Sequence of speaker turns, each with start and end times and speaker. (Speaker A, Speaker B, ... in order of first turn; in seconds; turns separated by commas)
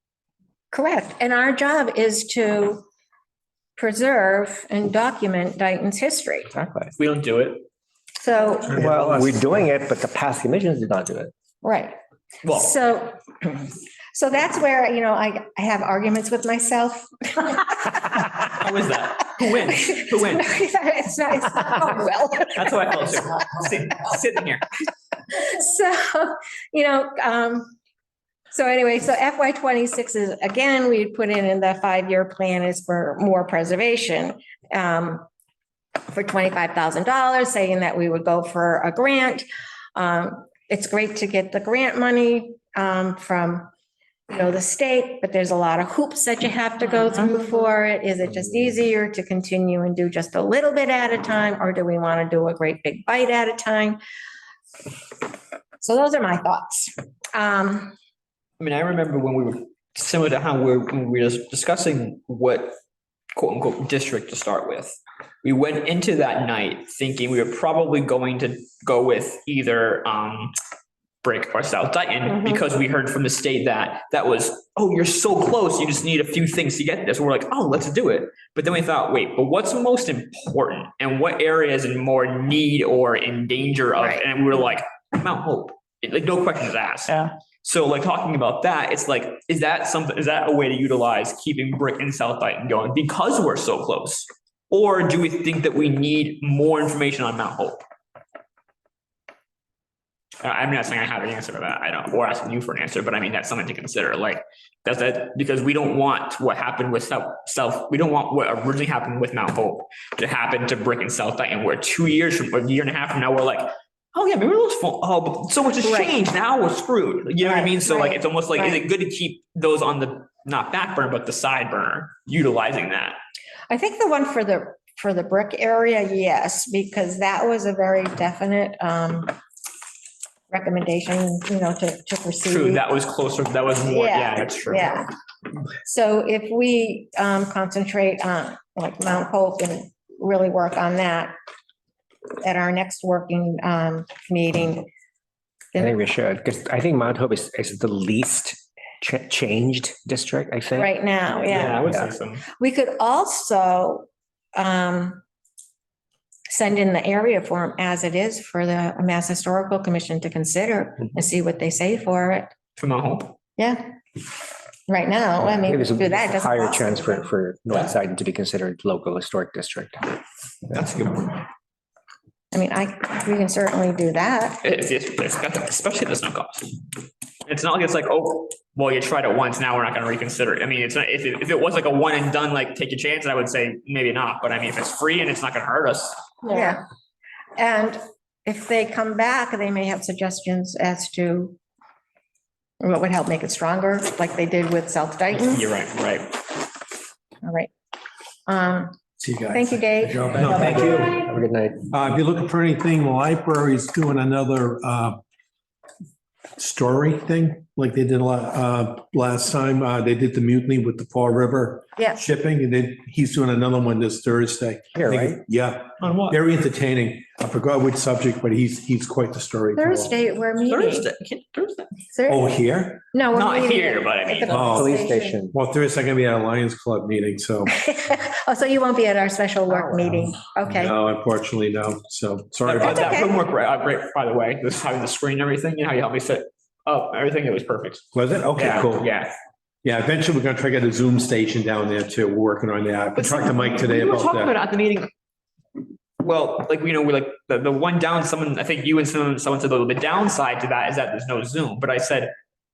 Speaker A: 0.7-2.9, Speaker A: 3.8-6.5, Speaker B: 6.5-6.9, Speaker C: 7.0-7.7, Speaker A: 8.2-8.9, Speaker D: 8.7-9.5, Speaker B: 8.7-11.3, Speaker A: 11.6-11.9, Speaker C: 12.4-12.8, Speaker A: 12.5-18.2, Speaker C: 18.4-20.5, Speaker A: 19.6-22.9, Speaker C: 22.5-24.6, Speaker A: 25.3-27.7, Speaker A: 28.5-35.3, Speaker A: 36.1-43.7, Speaker A: 44.3-54.0, Speaker A: 55.8-58.0, Speaker C: 58.6-62.8, Speaker C: 63.3-70.5, Speaker C: 71.2-97.8, Speaker A: 84.0-84.2, Speaker C: 100.4-123.2, Speaker A: 115.8-116.1, Speaker A: 117.4-118.8, Speaker A: 123.7-129.4, Speaker A: 130.5-132.8, Speaker C: 132.4-135.0, Speaker A: 133.9-135.1, Speaker A: 135.8-141.3, Speaker A: 142.4-144.9, Speaker B: 145.8-150.9, Speaker A: 150.8-151.9, Speaker C: 151.4-152.4, Speaker B: 151.8-152.1, Speaker A: 152.6-155.2, Speaker A: 156.5-162.5, Speaker C: 162.8-163.3, Speaker A: 163.6-163.9, Speaker A: 164.9-167.3, Speaker B: 165.5-170.1, Speaker C: 170.7-171.4, Speaker A: 172.5-174.6, Speaker C: 174.6-186.3, Speaker A: 186.5-186.8, Speaker A: 187.6-191.6, Speaker A: 192.8-195.7, Speaker C: 195.3-196.5, Speaker A: 197.4-197.7, Speaker A: 198.5-199.0, Speaker D: 199.2-201.2, Speaker A: 199.5-200.5, Speaker B: 200.3-201.9, Speaker D: 201.9-205.2, Speaker D: 206.6-220.2, Speaker B: 214.9-215.4, Speaker C: 216.0-216.4, Speaker A: 219.7-221.1, Speaker C: 220.7-221.9, Speaker A: 222.1-222.5, Speaker D: 222.3-223.0, Speaker A: 223.1-225.4, Speaker C: 223.3-224.6, Speaker D: 224.5-224.9, Speaker B: 224.5-225.6, Speaker D: 225.5-227.7, Speaker A: 227.7-230.9, Speaker D: 230.7-233.2, Speaker C: 232.6-238.0, Speaker A: 232.8-233.4, Speaker D: 238.1-239.1, Speaker C: 238.6-239.3, Speaker D: 239.8-244.5, Speaker C: 243.2-245.1, Speaker C: 246.2-252.3